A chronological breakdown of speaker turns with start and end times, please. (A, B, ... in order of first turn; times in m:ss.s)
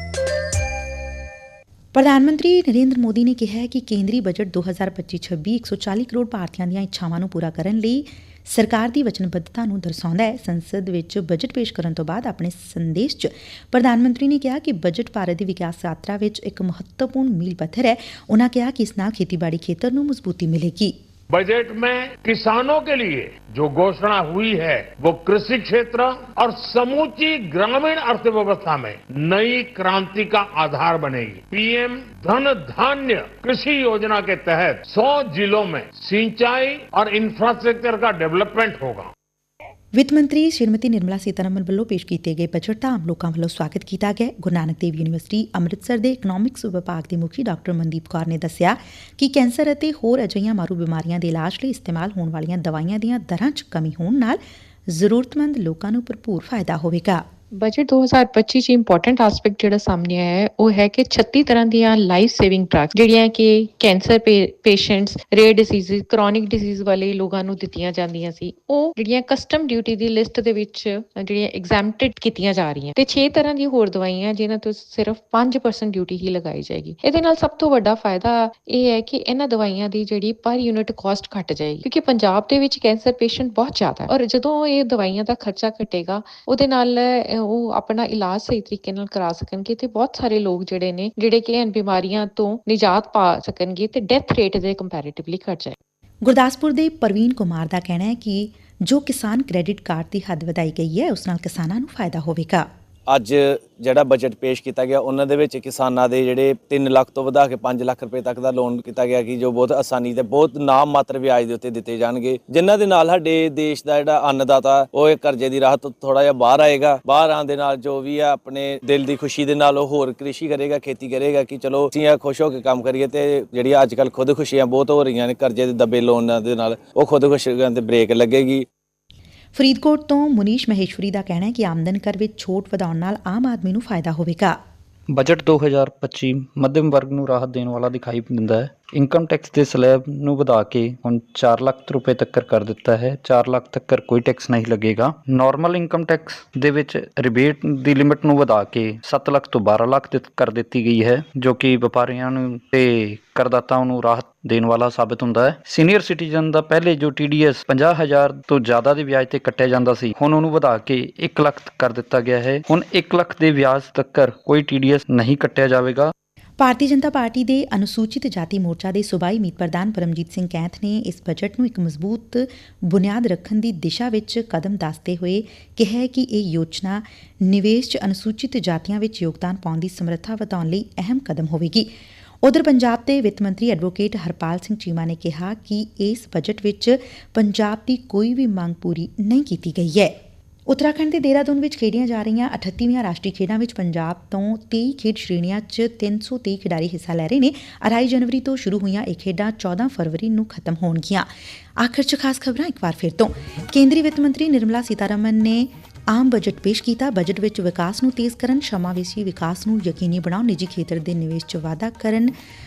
0:01.9-0:21.0 A
0:21.3-0:39.1 B
0:39.9-0:57.2 A
0:57.5-1:35.8 C
1:36.2-1:42.7 A
1:43.1-2:08.7 D
2:09.5-2:14.6 A
2:15.1-2:46.1 E
2:46.6-3:01.9 A
3:02.4-3:10.1 A
3:10.7-3:32.3 A